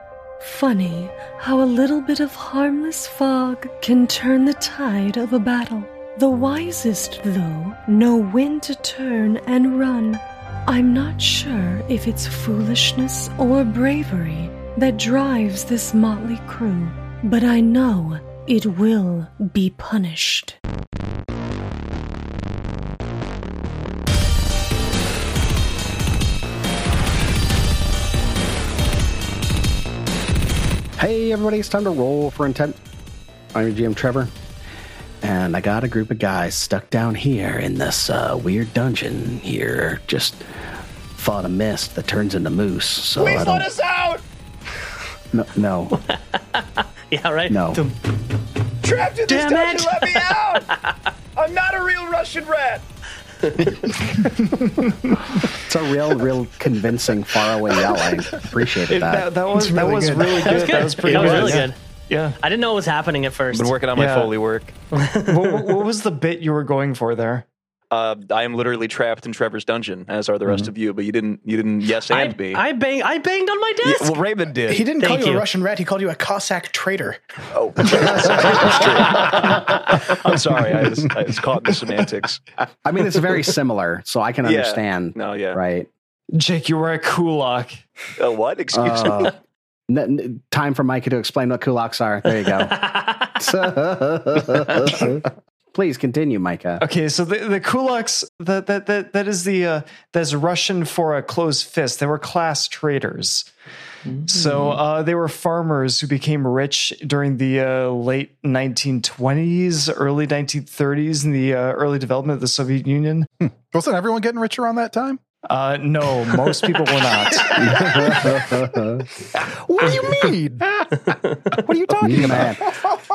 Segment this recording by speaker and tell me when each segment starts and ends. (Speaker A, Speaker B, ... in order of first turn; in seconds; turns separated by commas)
Speaker A: 0.4-20.6, Speaker B: 31.0-32.8, Speaker B: 33.5-34.3, Speaker B: 35.2-40.4, Speaker B: 41.2-43.7, Speaker C: 43.2-44.2, Speaker B: 45.3-46.0, Speaker D: 46.1-48.0, Speaker B: 47.5-47.8, Speaker C: 48.8-50.7, Speaker D: 49.3-51.0, Speaker C: 51.4-52.8, Speaker D: 53.4-53.9, Speaker B: 55.6-60.3, Speaker E: 58.9-62.4, Speaker F: 59.6-60.5, Speaker D: 60.4-61.8, Speaker C: 61.1-61.6, Speaker D: 62.4-63.7, Speaker C: 63.5-64.7, Speaker E: 63.9-64.3, Speaker D: 64.9-65.6, Speaker E: 65.3-67.5, Speaker C: 67.9-72.6, Speaker D: 72.1-74.2, Speaker C: 73.8-74.9, Speaker F: 74.7-77.2, Speaker D: 75.0-75.4, Speaker C: 77.5-82.4, Speaker B: 82.8-85.9, Speaker C: 84.4-85.6, Speaker E: 86.3-87.8, Speaker C: 88.2-89.3, Speaker B: 88.7-89.3, Speaker B: 89.9-96.8, Speaker E: 96.8-103.5, Speaker D: 104.1-104.4, Speaker E: 104.2-113.3, Speaker G: 113.4-115.2, Speaker E: 115.5-117.7, Speaker B: 117.6-119.0, Speaker G: 119.7-120.7, Speaker G: 121.9-123.1, Speaker B: 122.0-122.7